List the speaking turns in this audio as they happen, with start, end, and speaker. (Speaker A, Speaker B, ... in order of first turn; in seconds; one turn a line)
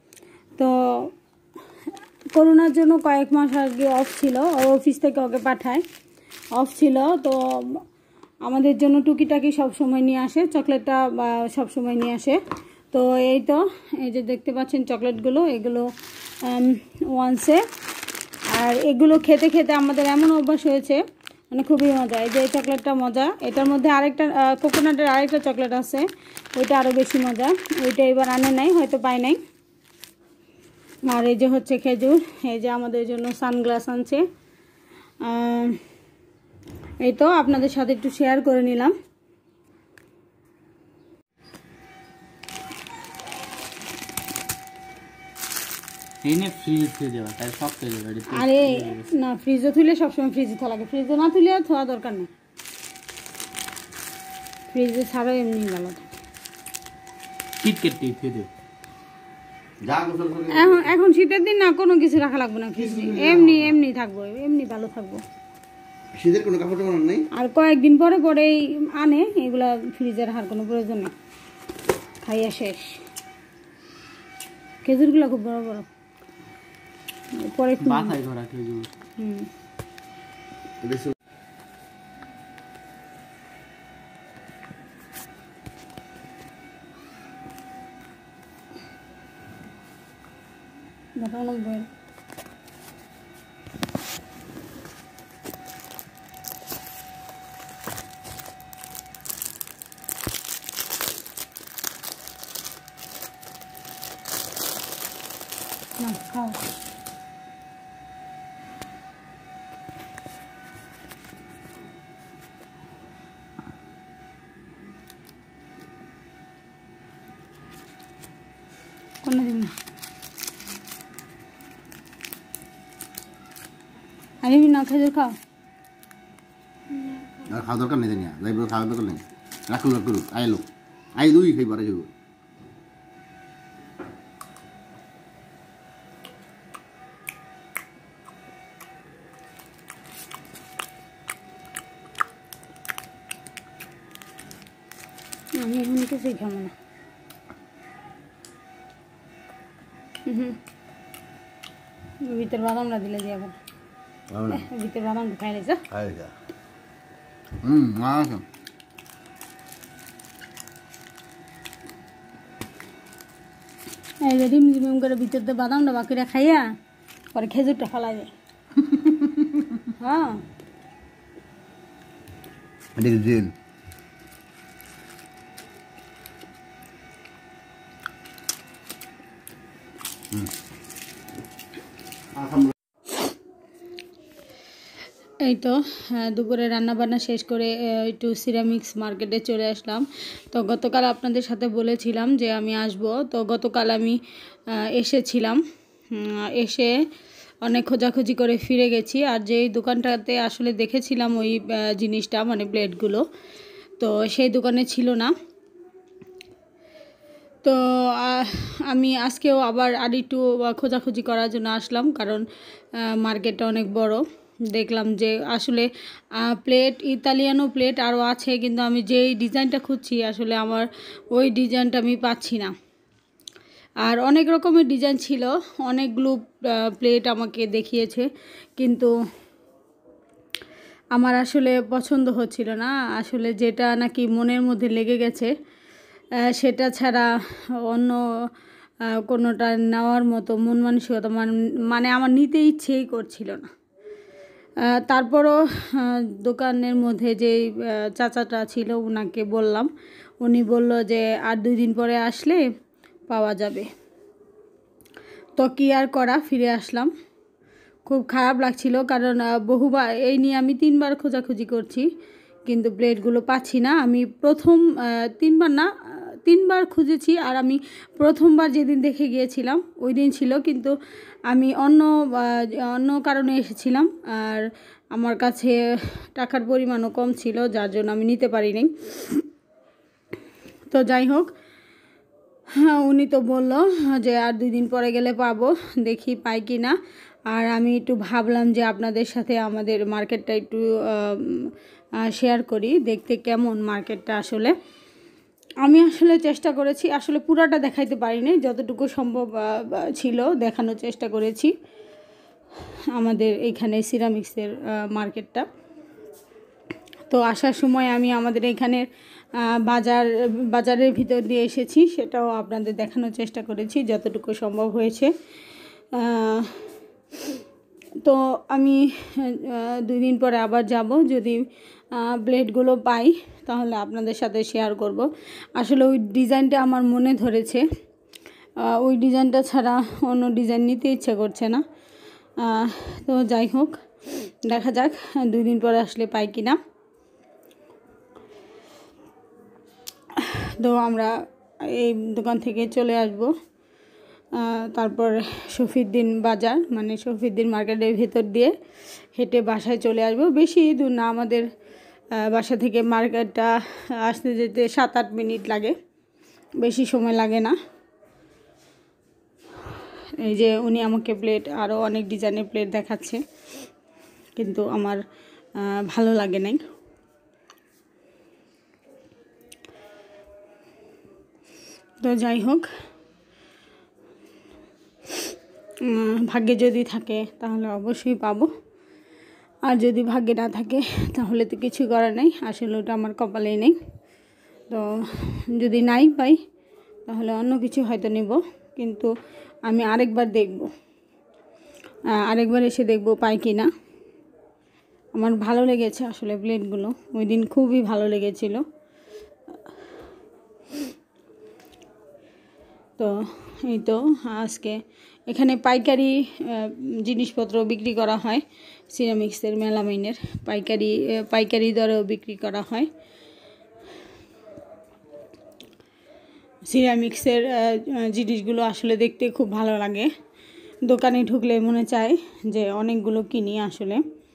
Speaker A: 0.6-1.1
Speaker A: 2.3-5.8
Speaker A: 6.5-7.8
Speaker A: 8.4-12.4
Speaker A: 12.9-15.9
Speaker A: 16.4-17.6
Speaker A: 18.5-29.4
Speaker A: 31.1-34.2
Speaker A: 35.2-35.8
Speaker A: 37.0-38.9
Speaker B: 46.2-49.0
Speaker A: 48.3-52.3
Speaker A: 54.7-56.0
Speaker B: 57.6-58.5
Speaker C: 59.8-60.9
Speaker A: 60.5-65.2
Speaker C: 66.1-67.3
Speaker A: 67.3-71.1
Speaker A: 72.2-73.0
Speaker A: 74.8-75.9
Speaker A: 77.3-78.2
Speaker B: 77.8-78.9
Speaker A: 79.2-79.5
Speaker C: 80.8-81.1
Speaker A: 91.2-91.9
Speaker A: 106.0-106.6
Speaker A: 119.2-119.8
Speaker A: 124.4-125.3
Speaker C: 127.4-132.1
Speaker A: 145.6-146.7
Speaker A: 150.2-150.6
Speaker A: 152.2-153.5
Speaker C: 154.3-154.6
Speaker A: 154.5-155.8
Speaker C: 155.9-156.3
Speaker C: 157.6-158.4
Speaker A: 164.2-166.7
Speaker A: 167.3-168.3
Speaker A: 169.9-170.4
Speaker C: 172.9-173.5
Speaker C: 182.3-182.7
Speaker A: 185.4-197.1
Speaker A: 197.6-203.2
Speaker A: 204.0-205.3
Speaker A: 207.6-222.7
Speaker A: 224.0-229.1
Speaker A: 231.1-235.5
Speaker A: 236.4-237.3
Speaker A: 237.8-238.5
Speaker A: 239.1-243.7
Speaker A: 244.8-252.7
Speaker A: 253.3-253.9
Speaker A: 255.6-257.1
Speaker A: 258.1-262.1
Speaker A: 262.6-270.9
Speaker A: 271.5-279.4
Speaker A: 280.9-281.5
Speaker A: 282.7-287.0
Speaker A: 287.5-294.7
Speaker A: 295.8-301.7
Speaker A: 303.1-305.7
Speaker A: 307.3-315.3
Speaker A: 316.1-316.8
Speaker A: 318.2-327.8
Speaker A: 328.8-331.8
Speaker A: 332.6-336.8
Speaker A: 340.3-343.5
Speaker A: 344.5-348.7
Speaker A: 349.3-351.7
Speaker A: 352.3-355.9
Speaker A: 356.8-357.8
Speaker A: 359.8-363.4
Speaker A: 364.6-365.2
Speaker A: 365.8-366.8
Speaker A: 372.2-372.9
Speaker A: 376.0-378.7
Speaker A: 379.8-384.0
Speaker A: 384.9-386.6
Speaker A: 387.3-389.3
Speaker A: 389.9-390.9
Speaker A: 392.3-393.9
Speaker A: 395.3-398.8
Speaker A: 403.2-413.1
Speaker A: 416.8-420.3
Speaker A: 421.0-424.2